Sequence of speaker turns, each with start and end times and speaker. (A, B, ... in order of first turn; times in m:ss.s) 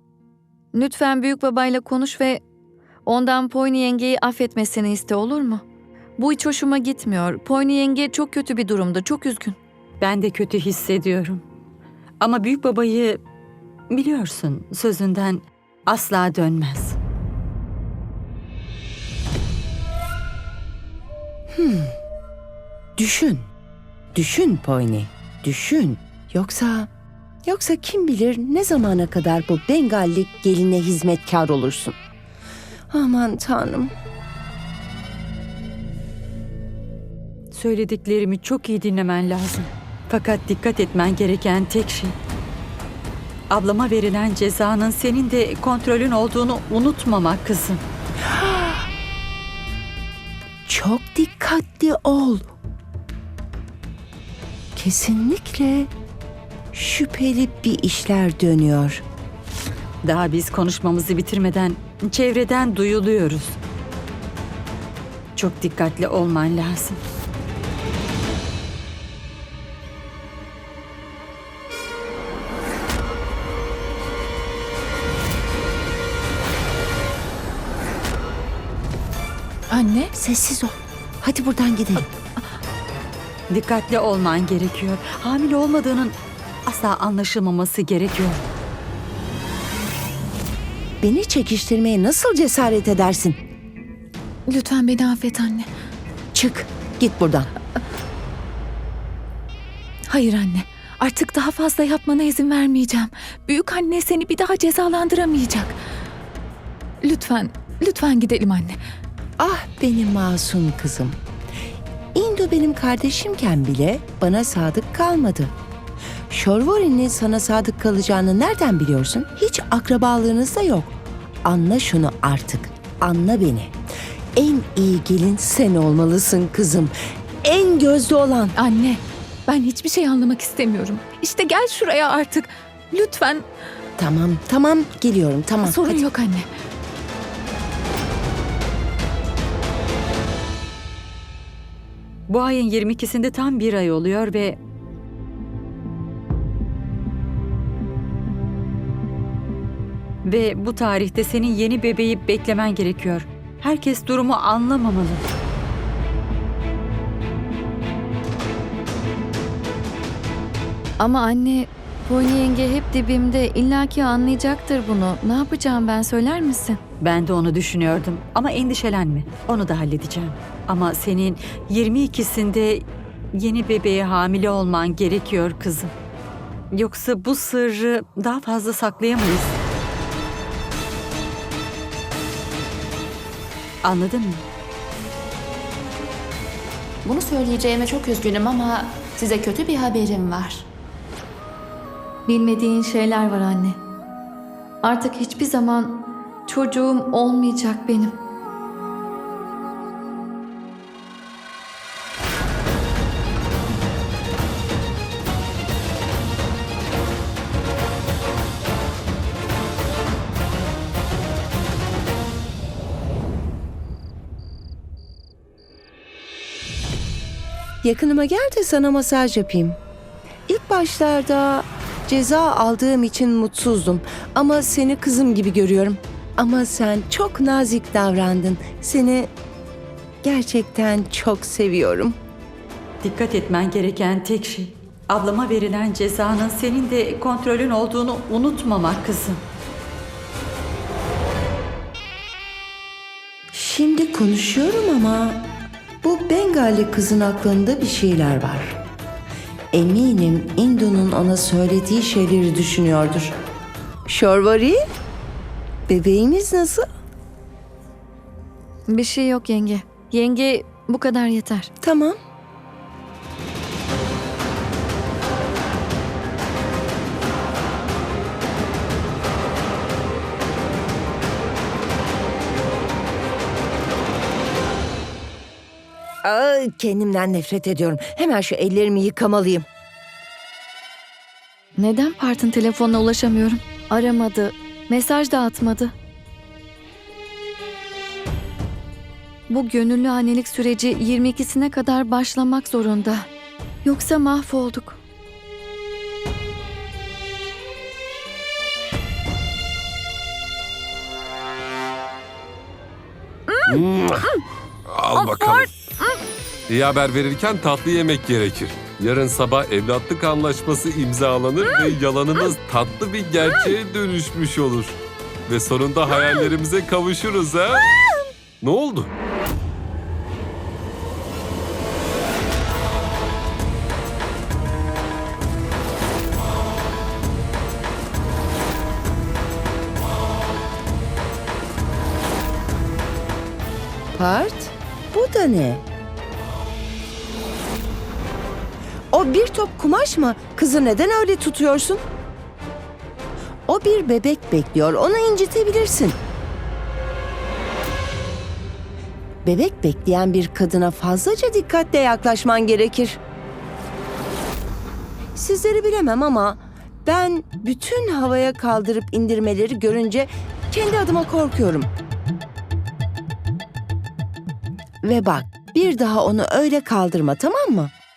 0:00.7-0:02.4 A
0:03.0-0:05.6 A
0:06.2-0:09.6 A
0:10.0-0:11.4 B
0:12.2-0:13.2 B
0:13.9-0:17.0 B
0:21.5-0:21.9 C
0:23.0-0:23.5 C
0:24.1-0:26.9 C
0:27.4-0:32.0 C
0:32.9-0:33.9 C
0:37.5-0:42.1 B
0:43.5-0:47.8 B
0:48.3-0:48.8 C
0:50.6-0:52.5 C
0:54.7-0:55.9 C
0:56.7-0:59.0 C
1:00.0-1:03.6 B
1:05.4-1:07.0 B
1:19.7-1:20.1 D
1:20.1-1:22.1 C
1:23.5-1:28.4 B
1:31.0-1:33.4 C
1:34.5-1:35.7 D
1:36.3-1:37.5 C
1:40.1-1:45.8 D
1:47.0-1:48.8 D
1:49.4-1:51.2 C
1:52.1-1:55.5 C
1:56.3-2:03.7 C
2:04.4-2:08.5 C
2:08.6-2:13.5 D
2:14.0-2:16.0 C
2:15.6-2:16.5 D
2:22.3-2:24.6 B
2:30.2-2:35.2 B
2:41.0-2:46.8 A
2:47.0-2:55.9 B
2:56.7-2:59.6 B
3:03.8-3:04.4 B
3:07.0-3:10.6 E
3:12.3-3:13.8 A
3:14.8-3:18.2 A
3:37.8-3:39.8 C
3:40.5-3:49.3 C
3:50.2-3:52.2 C
3:53.0-3:59.4 B
4:03.5-4:05.5 C
4:06.0-4:08.8 C
4:09.7-4:13.4 C
4:14.1-4:14.8 C
4:15.9-4:16.9 C
4:18.9-4:21.7 A
4:21.8-4:22.2 C
4:36.2-4:39.6 C
4:41.8-4:45.9 A
4:49.5-4:53.3 A
4:53.8-4:55.0 A
5:03.5-5:03.8 A
5:03.6-5:04.3 F
5:04.8-5:05.7 F
5:05.2-5:05.6 A
5:06.7-5:17.9 F
5:18.6-5:19.1 F
5:34.1-5:35.8 C
5:39.1-5:42.0 C
5:43.7-5:46.2 C
5:49.4-5:53.2 C
5:55.3-6:01.9 C
6:05.0-6:07.9 C